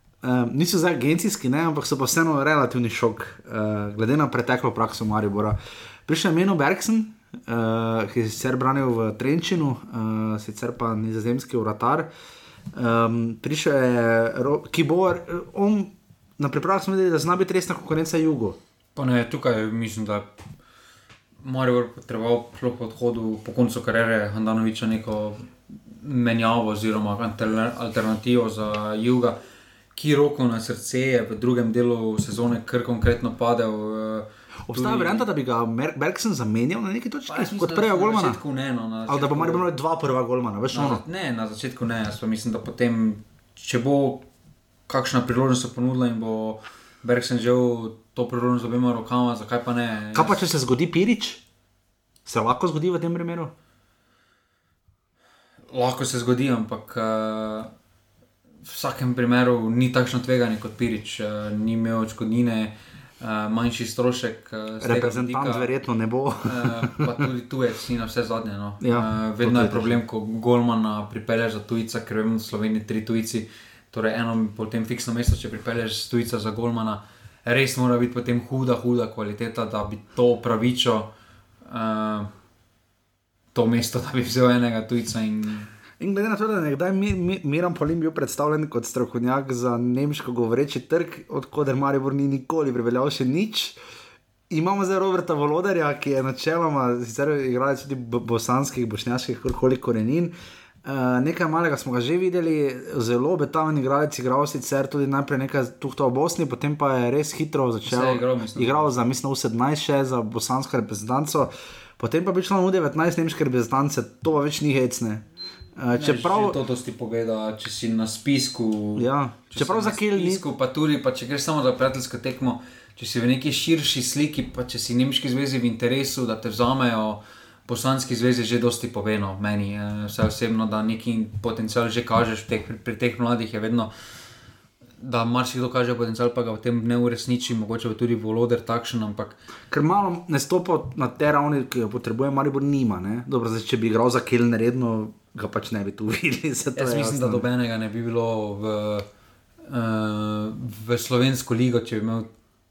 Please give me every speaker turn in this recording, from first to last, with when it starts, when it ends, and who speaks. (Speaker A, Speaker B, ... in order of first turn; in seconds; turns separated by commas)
Speaker A: 0.2-12.1, Speaker A: 12.7-18.6, Speaker B: 18.9-20.3, Speaker B: 21.4-29.4, Speaker B: 29.9-35.3, Speaker A: 34.6-38.4, Speaker B: 37.3-39.7, Speaker A: 39.1-41.0, Speaker B: 40.7-44.3, Speaker B: 44.9-50.4, Speaker A: 50.1-51.4, Speaker A: 52.2-53.5, Speaker B: 55.7-57.7, Speaker B: 58.6-65.7, Speaker A: 64.8-67.1, Speaker B: 66.4-81.1, Speaker A: 68.8-70.0, Speaker B: 81.7-82.3, Speaker B: 83.5-85.7, Speaker A: 86.0-93.8, Speaker A: 94.5-100.3, Speaker A: 100.8-115.2, Speaker B: 107.8-108.9, Speaker A: 115.8-116.6, Speaker B: 116.0-133.9, Speaker A: 119.0-120.4, Speaker B: 135.0-139.4, Speaker A: 139.7-147.4, Speaker B: 146.8-149.1, Speaker B: 149.6-152.3